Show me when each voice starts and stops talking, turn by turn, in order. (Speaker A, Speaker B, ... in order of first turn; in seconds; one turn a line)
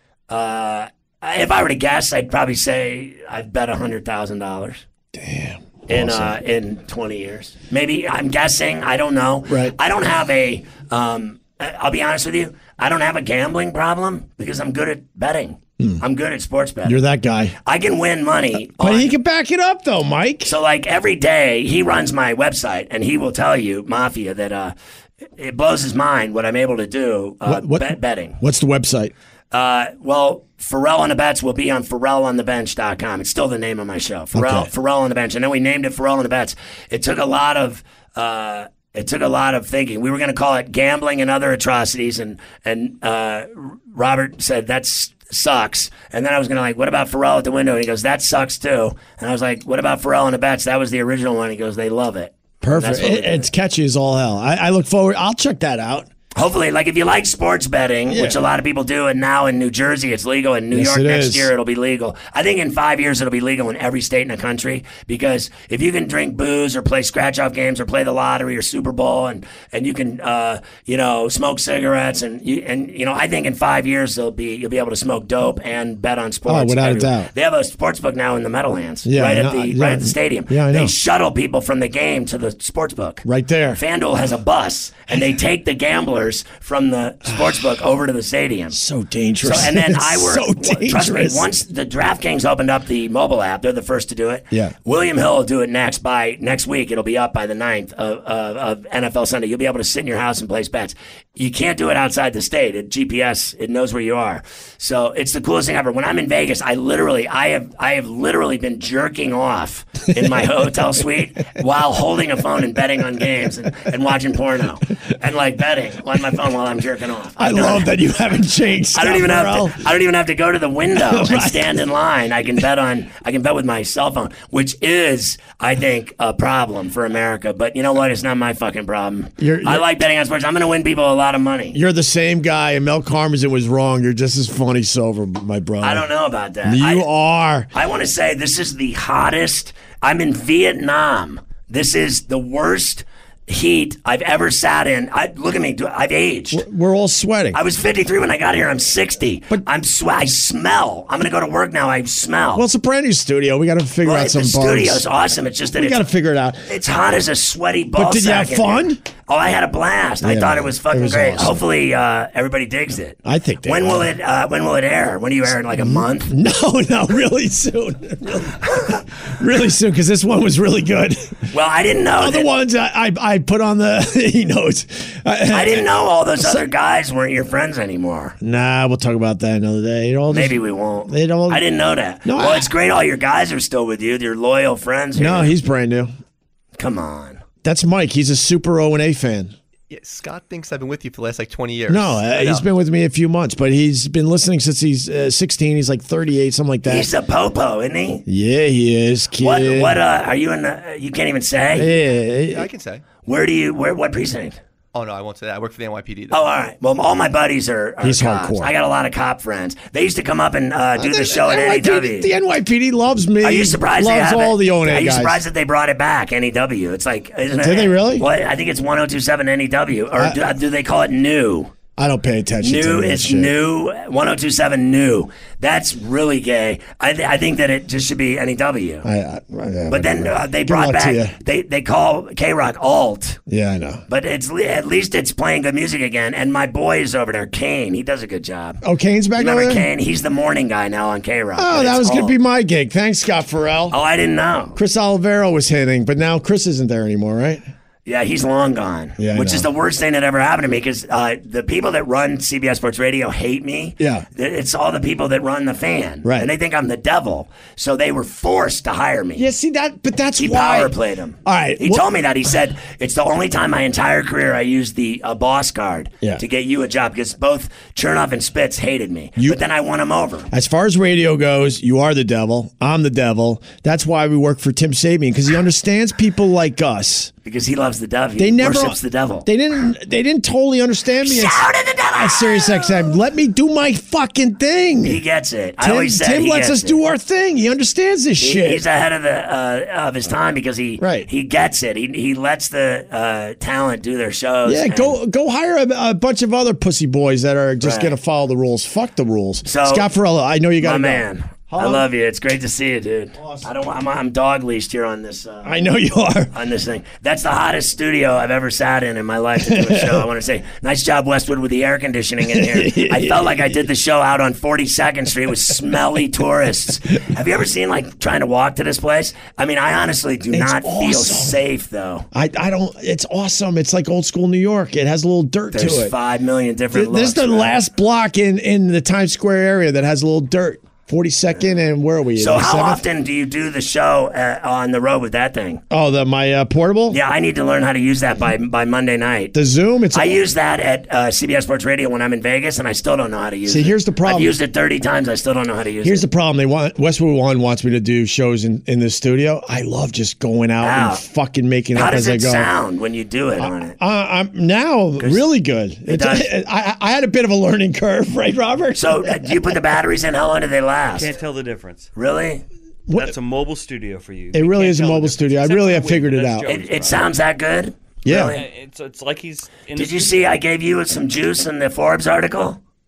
Speaker A: 0.3-4.8
Speaker B: 5.1-6.4
Speaker A: 5.9-17.0
Speaker B: 9.5-9.8
Speaker B: 16.9-17.6
Speaker A: 17.6-19.1
Speaker B: 18.5-20.5
Speaker A: 20.4-24.7
Speaker A: 25.4-28.4
Speaker B: 27.4-29.1
Speaker A: 29.5-53.5
Speaker B: 34.3-34.7
Speaker B: 52.6-56.1
Speaker A: 56.4-88.8
Speaker B: 58.1-58.5
Speaker B: 60.7-61.5
Speaker B: 76.5-77.3
Speaker B: 79.0-80.9
Speaker B: 83.2-83.8
Speaker B: 87.3-87.6
Speaker B: 88.7-91.5
Speaker A: 89.4-117.9
Speaker B: 117.4-119.9
Speaker A: 118.9-131.8
Speaker B: 120.9-121.8
Speaker B: 129.4-129.9
Speaker B: 131.7-136.1
Speaker A: 135.8-137.1
Speaker B: 136.7-137.7
Speaker A: 137.7-146.6
Speaker B: 146.5-147.6
Speaker A: 147.5-152.6
Speaker B: 152.6-155.0
Speaker A: 154.0-156.0
Speaker B: 155.8-156.7
Speaker A: 156.7-166.3
Speaker B: 158.0-159.0
Speaker B: 160.2-161.6
Speaker B: 163.2-164.1
Speaker B: 165.7-171.5
Speaker A: 171.5-172.5
Speaker B: 172.2-175.9
Speaker A: 175.5-178.4
Speaker B: 178.4-181.6
Speaker A: 180.3-185.5
Speaker B: 182.2-182.7
Speaker B: 185.2-186.1
Speaker A: 186.8-187.4
Speaker B: 187.6-189.6
Speaker C: 189.9-192.7
Speaker B: 191.9-197.1
Speaker A: 196.9-198.2
Speaker B: 198.3-200.0
Speaker A: 199.4-201.9
Speaker B: 201.8-202.7
Speaker C: 202.5-203.0
Speaker A: 203.3-204.6
Speaker C: 204.9-206.4
Speaker A: 206.3-212.3
Speaker B: 208.0-208.7
Speaker B: 211.0-215.4
Speaker A: 213.4-221.7
Speaker B: 217.6-218.3
Speaker B: 222.0-223.5
Speaker A: 222.6-229.1
Speaker B: 229.0-231.4
Speaker A: 229.9-233.4
Speaker B: 233.5-234.0
Speaker A: 234.1-238.8
Speaker B: 238.8-239.9
Speaker A: 239.4-242.4
Speaker B: 241.6-244.0
Speaker A: 243.9-244.8
Speaker B: 244.8-247.6
Speaker A: 248.1-259.5
Speaker B: 249.2-249.7
Speaker B: 254.0-254.3
Speaker B: 256.2-256.5
Speaker B: 259.4-260.9
Speaker A: 260.4-270.5
Speaker B: 261.4-262.1
Speaker B: 270.5-277.3
Speaker A: 277.4-279.5
Speaker B: 278.4-285.2
Speaker A: 281.2-283.1
Speaker A: 285.0-287.0
Speaker B: 285.8-288.8
Speaker A: 288.4-295.2
Speaker B: 291.0-291.3
Speaker B: 294.6-302.1
Speaker A: 297.8-298.1
Speaker A: 299.6-300.1
Speaker A: 300.8-305.7
Speaker B: 303.4-303.7
Speaker B: 305.6-306.5
Speaker A: 306.5-322.3
Speaker B: 309.6-310.3
Speaker B: 312.5-313.8
Speaker B: 320.5-321.6
Speaker B: 322.3-326.1
Speaker A: 325.7-327.8
Speaker B: 326.9-333.0
Speaker A: 332.4-335.8
Speaker B: 335.9-337.2
Speaker A: 337.1-339.5
Speaker B: 339.5-340.4
Speaker A: 340.1-346.2
Speaker B: 343.7-344.5
Speaker B: 346.0-352.7
Speaker A: 350.8-351.2
Speaker A: 351.9-354.0
Speaker B: 353.6-359.8
Speaker A: 356.1-356.5
Speaker A: 359.0-361.3
Speaker D: 361.1-362.1
Speaker A: 362.2-362.6
Speaker B: 363.1-363.3
Speaker D: 363.1-367.3
Speaker B: 364.5-366.7
Speaker A: 366.7-368.6
Speaker B: 368.2-368.6
Speaker D: 368.5-370.6
Speaker A: 369.9-372.8